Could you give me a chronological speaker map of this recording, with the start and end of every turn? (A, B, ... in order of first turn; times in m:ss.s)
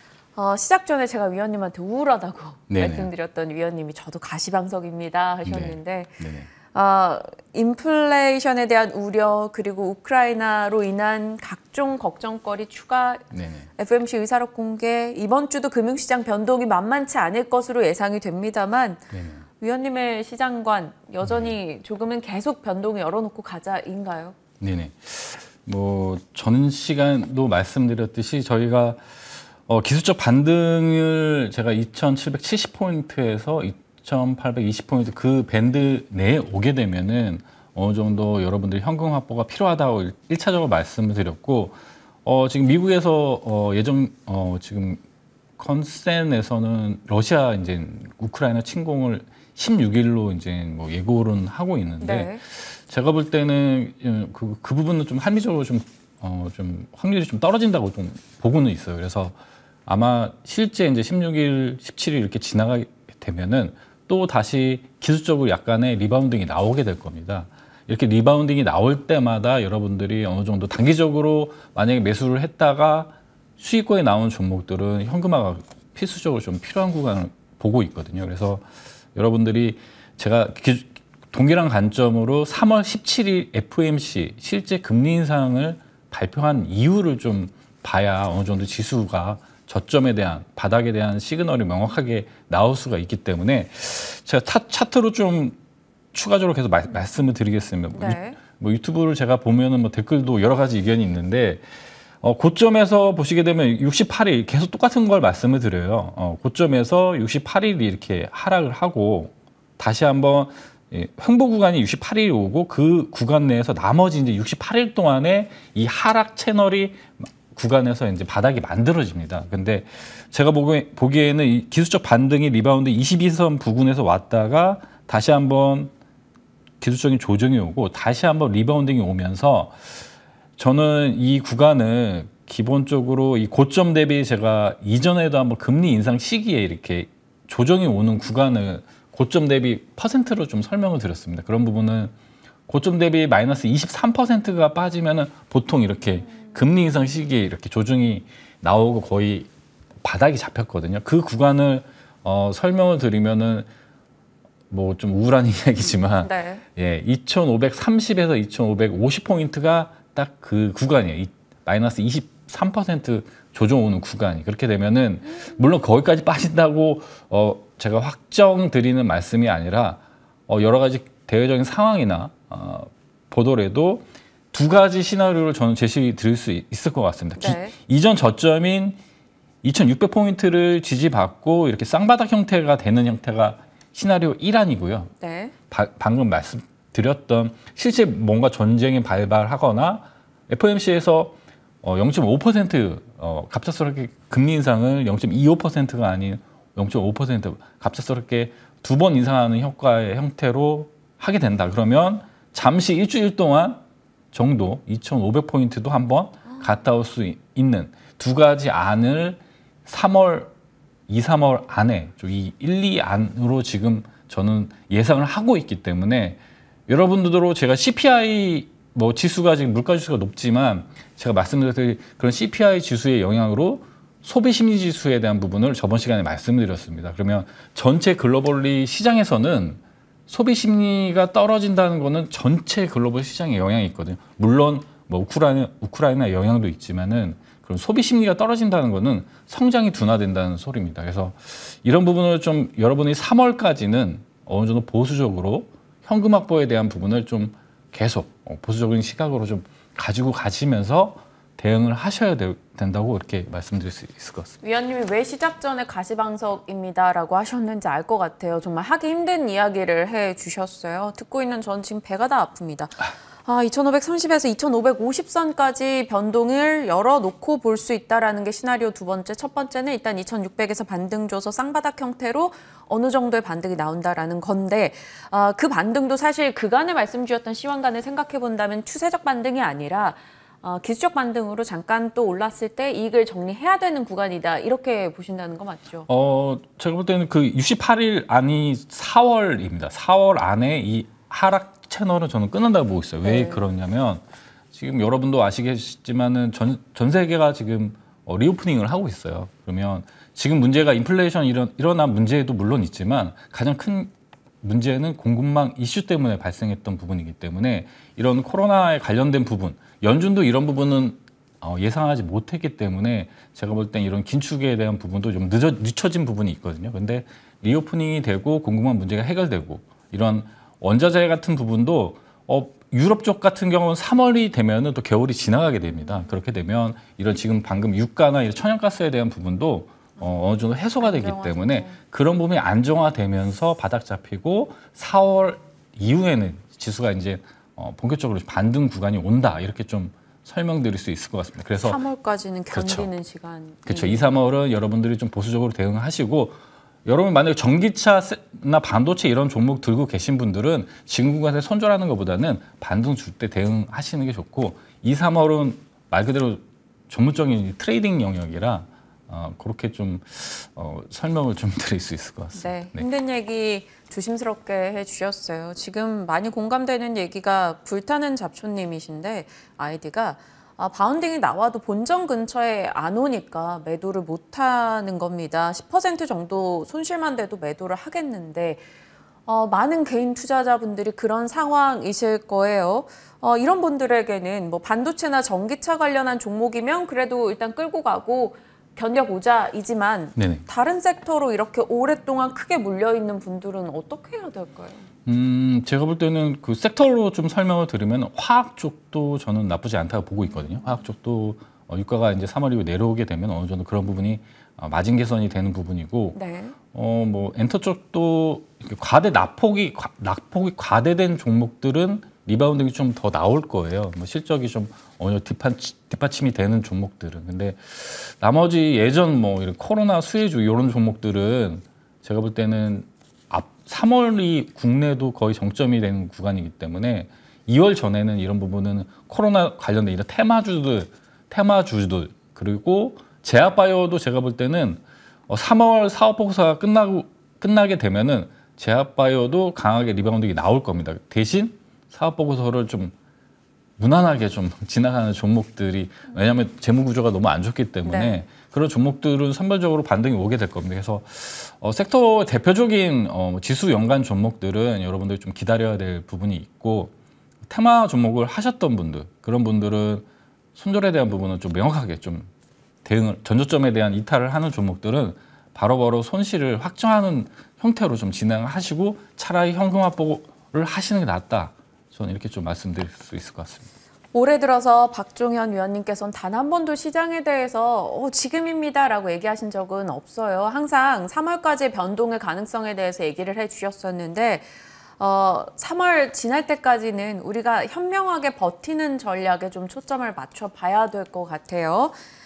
0:00.4-0:24.4 A
0:02.7-0:03.1 B
0:05.4-0:06.5 B
0:13.3-0:13.7 B
0:19.1-0:19.4 B
0:21.2-0:21.5 B
0:24.6-0:45.0 B
0:45.6-0:59.4 B
0:52.0-0:52.4 A
0:59.9-1:35.6 B
1:36.1-1:41.6 B
1:37.9-1:38.4 A
1:42.2-2:05.9 B
2:06.8-2:09.8 B
2:10.6-2:22.1 B
2:22.7-2:29.5 B
2:30.0-2:33.7 B
2:34.7-2:59.0 B
2:36.2-2:36.6 A
2:57.4-2:57.7 A
2:59.6-3:05.1 B
3:05.2-3:05.5 A
3:05.7-3:23.8 B
3:24.3-3:30.5 B
3:31.1-4:14.6 B
4:14.6-4:46.1 A
4:46.1-4:54.2 B
4:53.2-4:53.6 A
4:54.7-5:42.0 B
5:31.0-5:32.0 A
5:41.8-5:44.3 A
5:42.7-5:43.1 B
5:43.9-6:03.0 B
6:02.6-6:18.8 A
6:19.5-6:35.1 A
6:30.4-6:30.6 B
6:35.3-6:46.4 B
6:46.3-6:46.8 A
6:46.9-7:23.1 B
7:24.0-7:37.1 B
7:28.0-7:28.4 A
7:37.7-7:42.5 B
7:43.0-7:53.9 B
7:54.3-8:04.6 A
8:05.2-8:12.1 A